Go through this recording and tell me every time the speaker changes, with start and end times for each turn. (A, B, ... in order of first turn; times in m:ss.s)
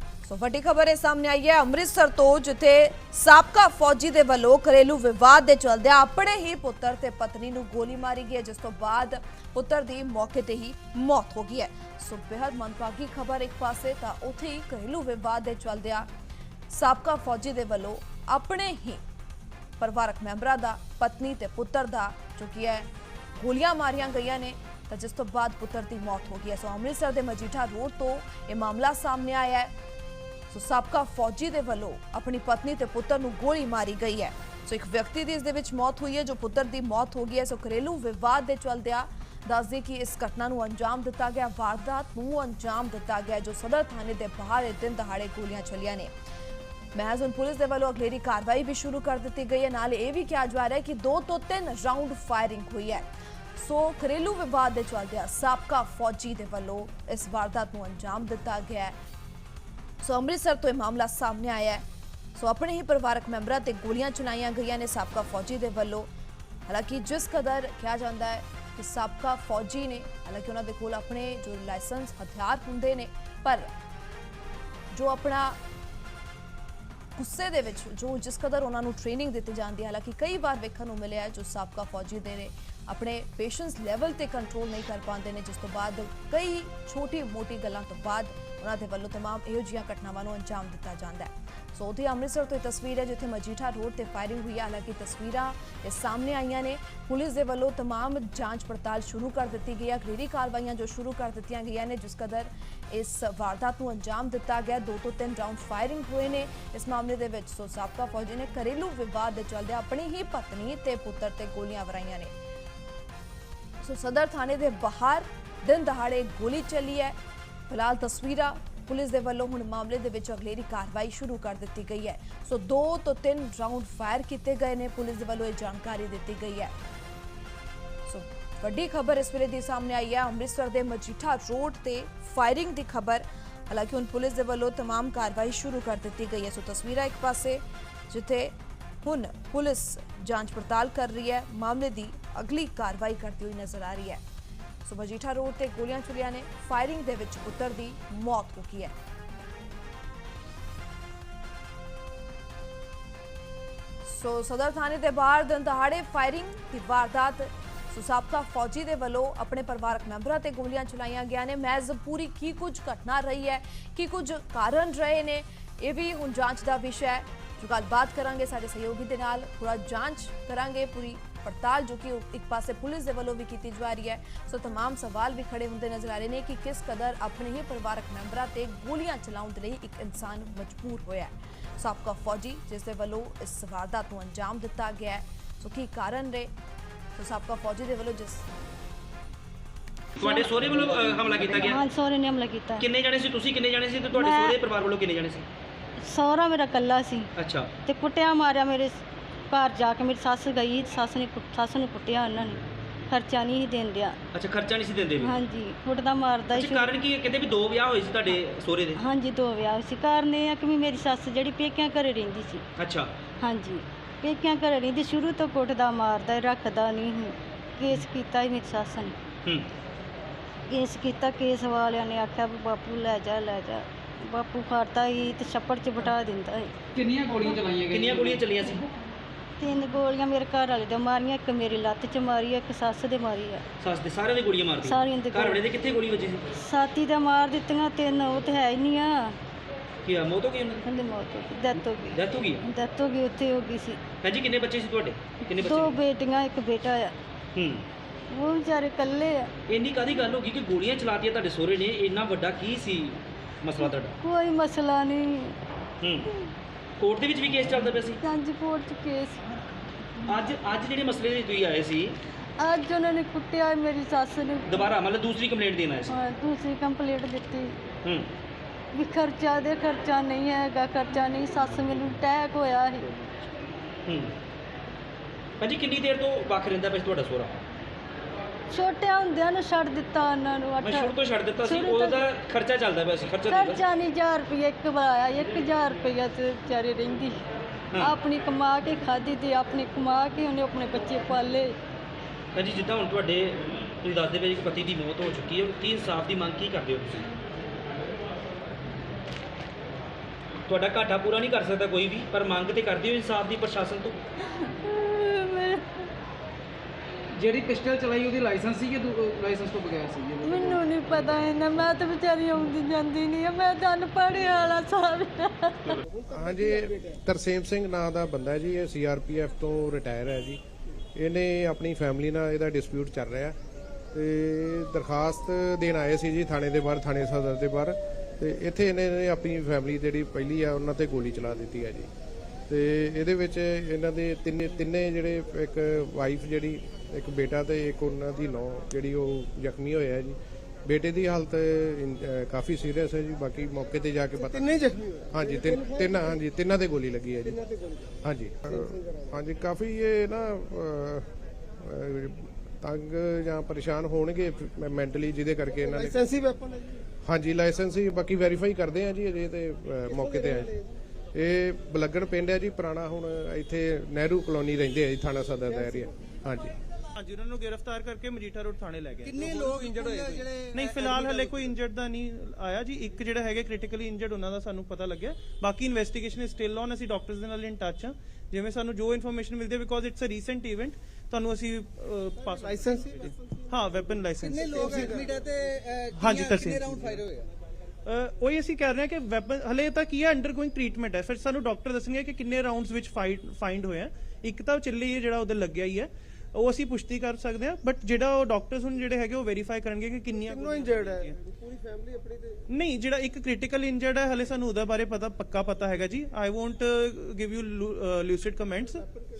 0:00.2-0:16.1 A
0:16.7-0:19.0 A
0:19.8-0:29.7 A
0:30.5-0:46.1 A
0:46.9-0:58.9 A
1:00.0-1:01.8 A
1:02.3-1:06.1 A
1:06.7-1:13.7 A
1:14.9-1:15.6 A
1:17.2-1:52.3 A
1:53.8-1:57.2 A
1:57.7-2:06.7 A
2:08.0-2:24.2 A
2:24.8-2:28.9 A
2:34.0-3:06.5 A
3:07.1-3:08.5 A
3:10.2-3:11.8 B
3:10.2-3:12.8 C
3:12.8-3:15.4 B
3:14.1-3:14.6 C
3:16.0-3:17.3 C
3:17.4-3:17.7 B
3:17.8-3:24.2 C
3:24.3-3:25.3 B
3:25.2-3:26.9 C
3:26.5-3:29.0 B
3:28.9-3:32.6 C
3:32.8-3:33.2 B
3:33.4-3:39.1 C
3:39.4-3:39.7 B
3:40.7-3:46.8 C
3:46.9-3:47.9 D
3:47.3-3:47.6 C
3:47.8-3:48.9 B
3:49.6-3:53.6 C
3:53.8-3:56.4 B
3:54.8-3:55.6 C
3:56.6-3:59.4 C
4:00.0-4:00.8 B
4:00.8-4:04.0 C
4:02.1-4:02.6 B
4:04.2-4:05.9 B
4:05.6-4:07.1 C
4:07.5-4:07.9 B
4:08.3-4:09.5 C
4:09.7-4:14.1 B
4:13.8-4:15.6 C
4:16.0-4:16.3 B
4:17.0-4:18.2 B
4:18.2-4:19.4 C
4:20.2-4:22.2 B
4:22.6-4:24.9 C
4:24.7-4:26.2 B
4:26.1-4:27.7 C
4:28.0-4:28.3 B
4:28.9-4:33.1 C
4:34.0-4:34.3 B
4:35.6-4:37.6 B
4:38.7-4:42.3 C
4:40.8-4:43.8 B
4:43.5-4:47.4 C
4:48.0-4:51.7 C
4:52.5-4:57.3 B
5:00.7-5:04.2 B
5:04.5-5:06.0 C
5:07.4-5:10.8 D
5:10.4-5:16.0 C
5:16.3-5:20.6 E
5:21.1-5:23.6 E
5:24.1-5:32.1 E
5:32.7-5:47.6 E
5:48.2-5:56.3 E
5:57.2-6:00.8 E
6:01.3-6:06.8 E
6:07.2-6:09.4 F
6:09.2-6:11.7 G
6:10.0-6:25.3 F
6:24.3-6:27.5 G
6:26.1-6:27.2 F
6:28.0-6:41.4 F
6:42.7-6:49.0 F